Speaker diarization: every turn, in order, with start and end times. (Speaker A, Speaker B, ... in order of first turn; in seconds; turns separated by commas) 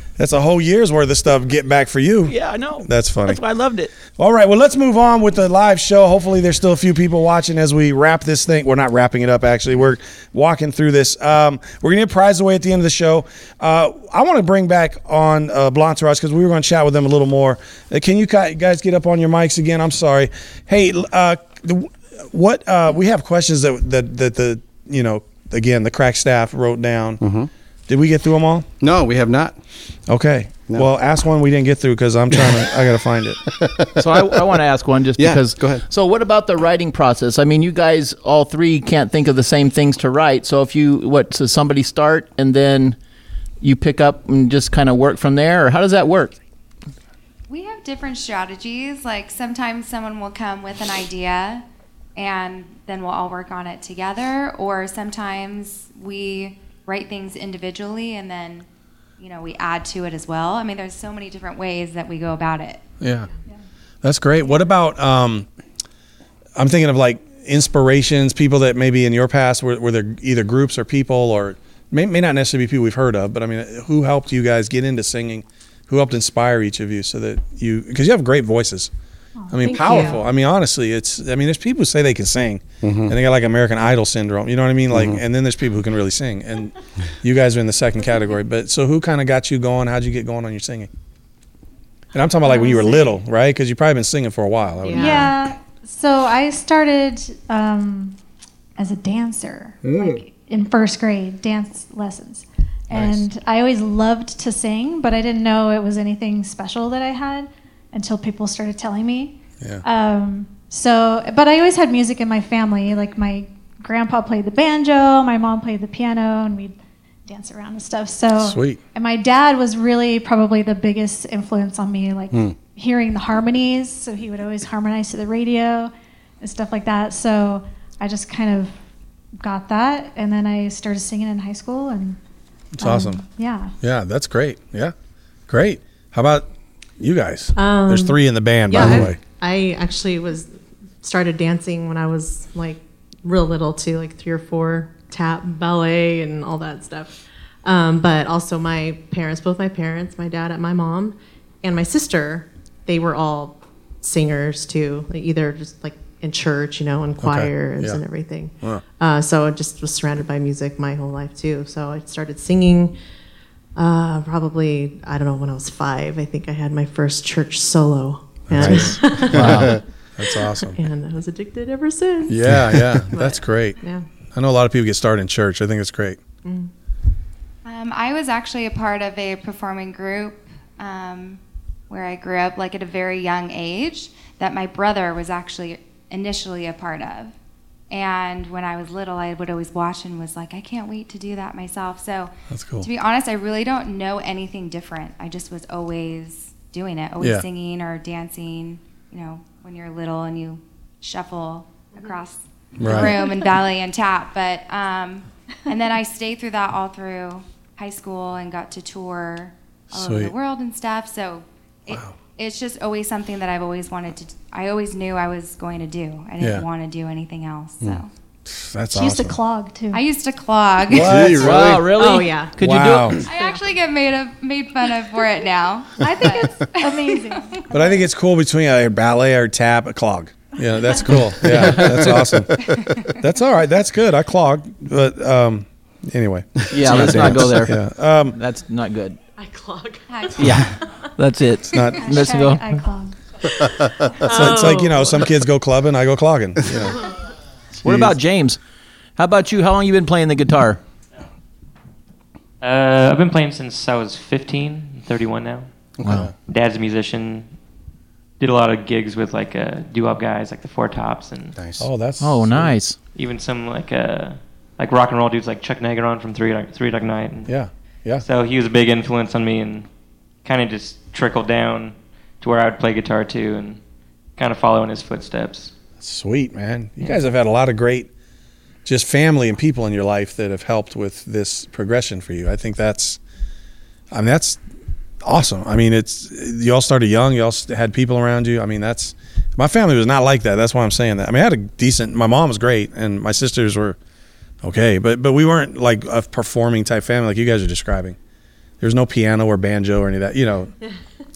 Speaker A: 0.2-3.4, Speaker B: 2.3-3.9, Speaker A: 4.1-27.2, Speaker C: 27.2-27.5, Speaker A: 27.9-28.7, Speaker C: 28.8-29.6, Speaker A: 30.1-33.4, Speaker C: 33.5-34.4, Speaker B: 34.0-43.0, Speaker C: 35.2-35.8, Speaker B: 43.6-46.4, Speaker D: 47.5-51.6, Speaker D: 52.1-58.7, Speaker D: 59.2-62.8, Speaker A: 63.0-63.3, Speaker A: 64.0-65.5, Speaker A: 66.5-78.9, Speaker A: 79.5-90.9, Speaker E: 79.6-80.2, Speaker C: 82.8-83.1, Speaker C: 84.9-85.2, Speaker A: 92.1-95.3, Speaker F: 92.5-93.0, Speaker E: 94.8-95.3, Speaker F: 94.9-98.2, Speaker F: 98.8-116.8, Speaker A: 102.9-103.3, Speaker F: 117.3-128.7, Speaker A: 118.4-118.8, Speaker F: 129.4-132.2, Speaker A: 132.7-133.2, Speaker F: 132.8-133.7, Speaker A: 133.8-134.9, Speaker A: 135.5-136.5, Speaker A: 137.0-139.2, Speaker E: 137.6-140.5, Speaker C: 138.8-139.1, Speaker E: 141.0-162.9, Speaker A: 157.2-158.0, Speaker E: 163.8-172.5, Speaker A: 168.5-169.5, Speaker C: 168.6-169.8, Speaker B: 169.3-169.8, Speaker A: 170.2-170.8, Speaker A: 172.3-173.8, Speaker C: 172.7-173.0, Speaker E: 173.1-174.0, Speaker A: 174.3-176.2, Speaker E: 176.4-176.7, Speaker D: 177.6-187.3, Speaker D: 187.9-218.1, Speaker A: 192.5-192.9, Speaker A: 197.2-197.4, Speaker A: 202.8-203.2, Speaker A: 209.9-210.3, Speaker A: 216.4-216.7, Speaker A: 218.5-219.4, Speaker F: 218.9-220.0, Speaker D: 219.9-221.2, Speaker A: 220.9-221.6, Speaker C: 220.9-221.9, Speaker B: 221.4-223.2, Speaker E: 221.9-222.5, Speaker A: 222.6-223.2, Speaker D: 223.2-227.6, Speaker F: 226.0-227.9, Speaker A: 227.7-238.3, Speaker C: 231.4-232.1, Speaker B: 231.5-232.2, Speaker D: 232.6-233.2, Speaker B: 236.7-237.8, Speaker C: 236.7-237.6, Speaker B: 238.3-239.2, Speaker E: 239.4-240.6, Speaker D: 240.1-240.7, Speaker B: 240.3-242.6, Speaker A: 241.7-242.1, Speaker F: 241.9-243.2, Speaker E: 244.1-245.3, Speaker A: 244.2-247.0, Speaker B: 247.8-248.6, Speaker B: 249.2-250.8, Speaker G: 252.6-255.7, Speaker C: 256.0-256.3, Speaker B: 256.0-256.3, Speaker G: 256.4-257.5, Speaker G: 258.4-261.6, Speaker C: 261.6-261.9, Speaker A: 261.8-262.8, Speaker B: 262.2-263.0, Speaker G: 263.1-267.5, Speaker A: 267.5-268.2, Speaker G: 268.2-269.9, Speaker G: 270.4-273.8, Speaker G: 274.4-275.7, Speaker A: 276.0-278.1, Speaker A: 278.8-283.2, Speaker A: 284.1-284.6, Speaker A: 285.2-294.0, Speaker A: 294.6-298.2, Speaker A: 298.8-300.7